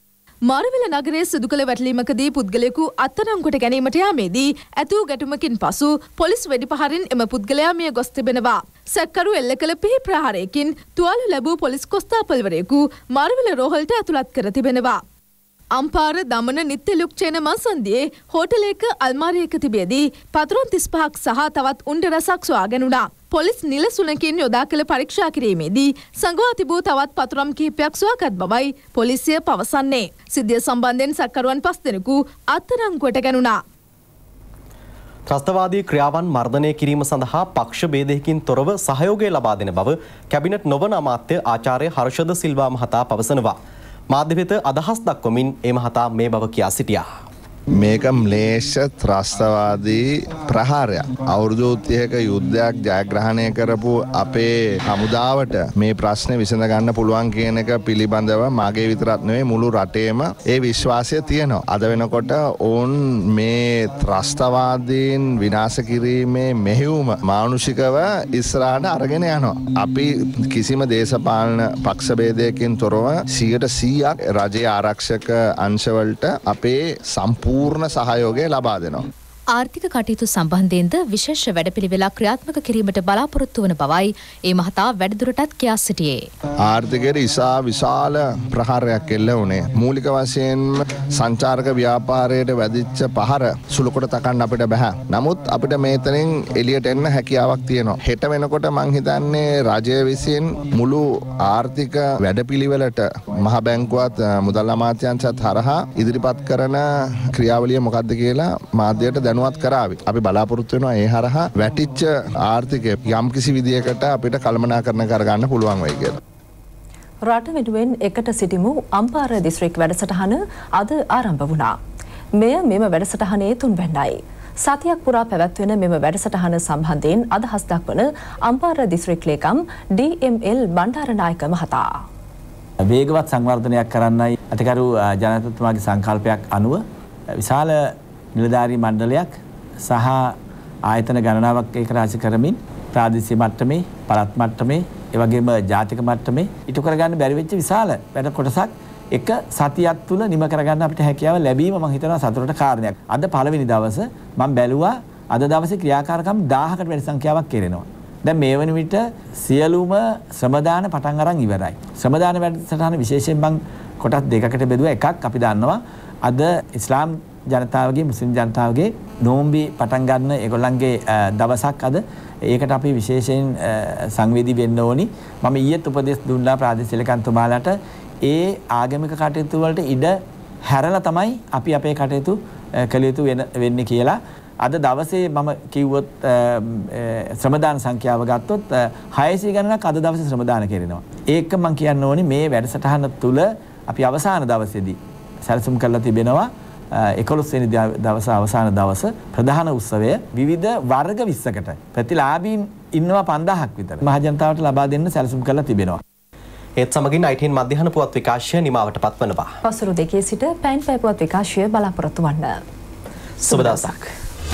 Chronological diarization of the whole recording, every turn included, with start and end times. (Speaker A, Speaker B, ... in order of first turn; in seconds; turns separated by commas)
Speaker A: 0.5-15.0, Speaker A: 15.7-33.6, Speaker B: 35.3-43.6, Speaker B: 44.1-47.0, Speaker C: 47.8-79.0, Speaker D: 79.5-86.2, Speaker C: 86.6-116.2, Speaker E: 117.3-121.7, Speaker E: 122.4-131.9, Speaker F: 132.9-136.8, Speaker F: 137.4-180.1, Speaker F: 180.7-206.0, Speaker B: 206.8-209.5, Speaker E: 209.6-212.6, Speaker B: 213.4-213.9, Speaker E: 213.5-214.0